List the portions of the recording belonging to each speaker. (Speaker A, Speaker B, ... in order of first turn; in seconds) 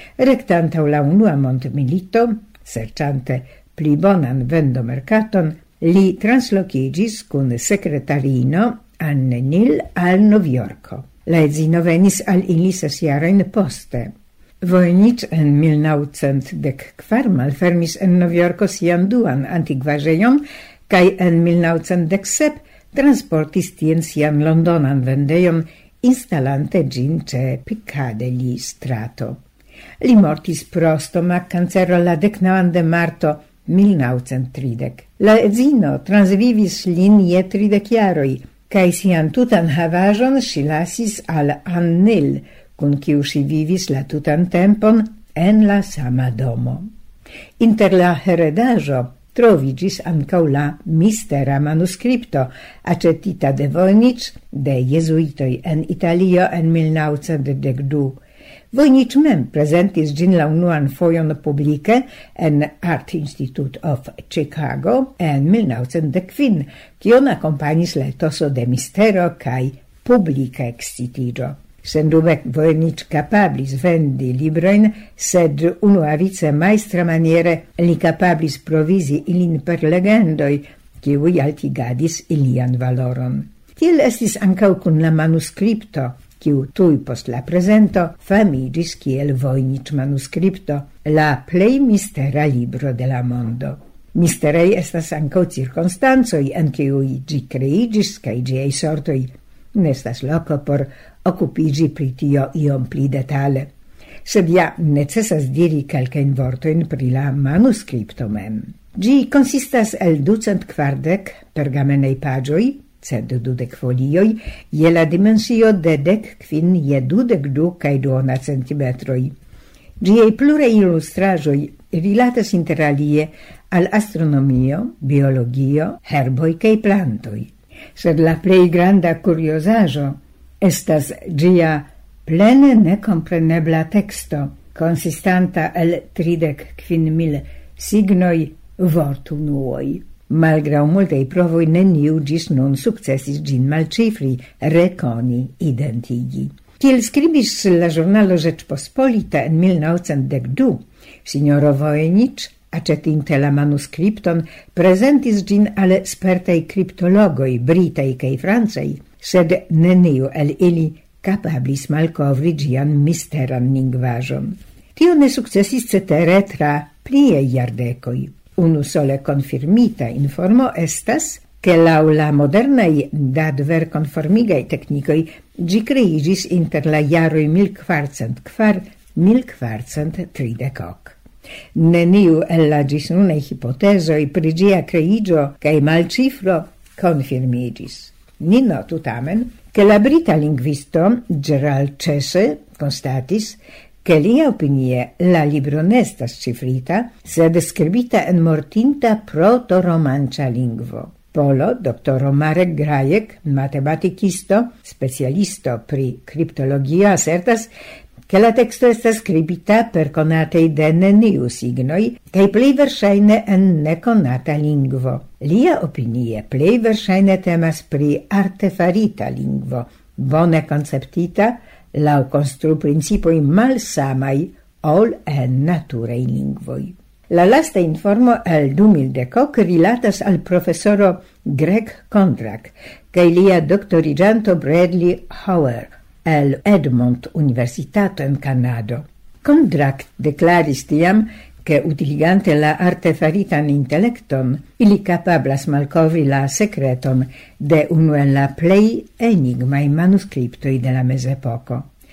Speaker A: 0.2-29.4, 30.0-46.9, 47.6-58.2, 58.7-103.7, 104.2-119.3, 120.0-181.2, 181.8-207.7, 208.3-251.9